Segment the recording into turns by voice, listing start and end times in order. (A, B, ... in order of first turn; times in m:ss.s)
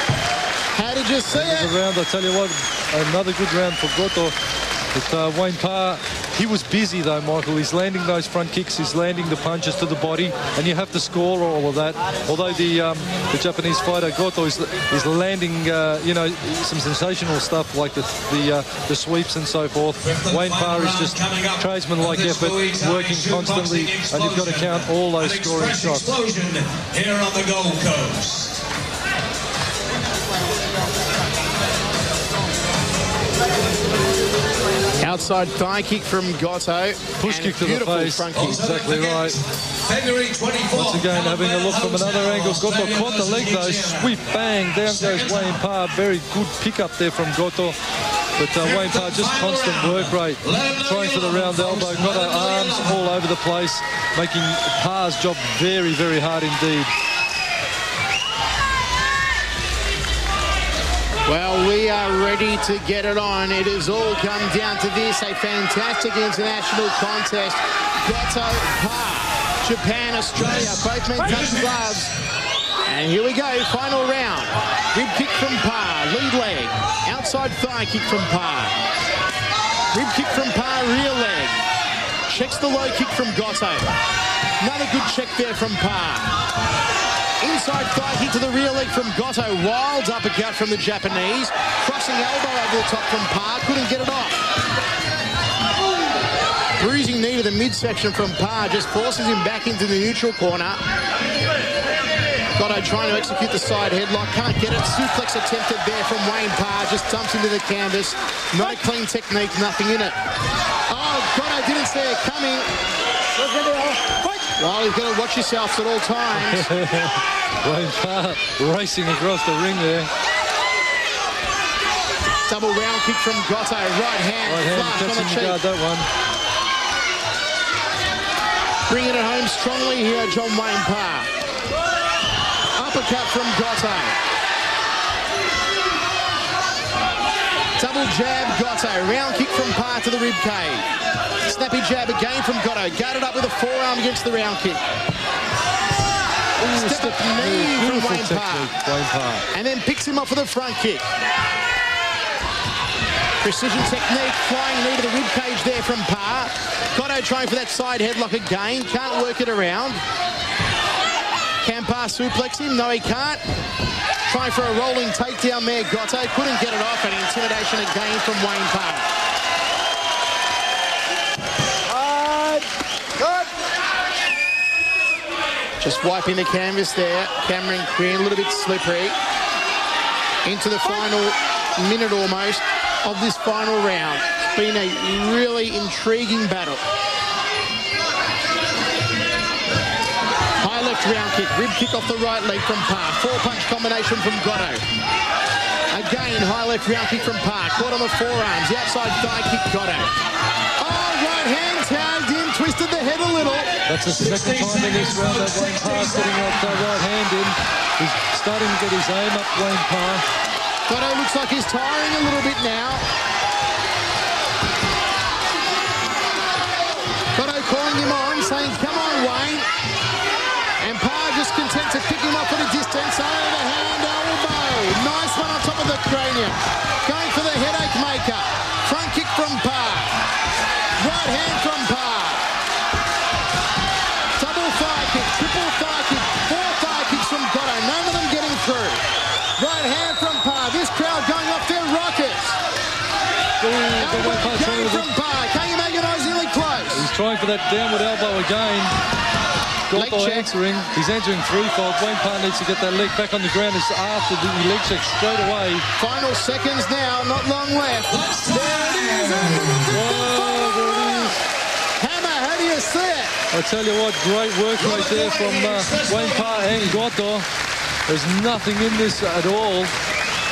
0:00.7-0:01.7 A
0:01.3-0:04.4 B
0:04.9-0:26.1 B
0:20.0-0:28.6 C
0:35.0-0:38.6 A
0:37.2-0:39.4 B
0:38.3-0:44.2 C
0:40.7-0:47.8 B
0:44.8-0:45.6 C
0:48.4-0:56.9 B
0:48.6-0:53.0 C
1:01.3-1:12.1 A
1:10.4-1:11.9 C
1:12.9-1:18.8 A
1:19.9-1:21.6 A
1:22.3-1:24.0 A
1:24.6-1:26.3 A
1:27.4-1:34.4 A
1:36.8-1:40.8 A
1:42.6-1:50.2 A
1:50.9-1:52.7 A
1:53.5-1:56.7 A
1:56.4-2:00.1 B
2:02.5-2:05.6 A
2:04.5-2:06.1 B
2:08.9-2:11.3 A
2:12.8-2:14.2 A
2:17.8-2:20.9 A
2:21.4-2:24.8 A
2:26.6-2:29.4 B
2:26.6-2:28.7 A
2:29.5-2:31.1 A
2:33.4-2:40.0 A
2:41.6-2:43.4 A
2:44.3-2:49.1 A
2:51.9-2:52.6 A
2:53.2-2:53.5 A
2:55.8-2:59.2 A
3:00.4-3:06.8 A
3:10.6-3:14.8 A
3:15.9-3:20.1 A
3:20.8-3:23.7 A
3:23.9-3:30.2 B
3:24.1-3:26.8 C
3:30.9-3:33.0 A
3:37.4-3:39.7 A
3:40.8-3:50.2 A
3:51.0-3:52.5 A
3:54.4-3:59.0 A
3:59.6-4:02.6 A
4:03.6-4:05.1 B
4:04.0-4:07.1 A
4:06.9-4:08.9 B
4:09.9-4:15.9 B
4:09.9-4:10.5 A
4:16.0-4:21.4 A
4:18.1-4:20.0 C
4:19.9-4:21.4 B
4:22.0-4:23.4 A
4:23.5-4:27.5 B
4:24.8-4:27.0 C
4:28.1-4:30.0 B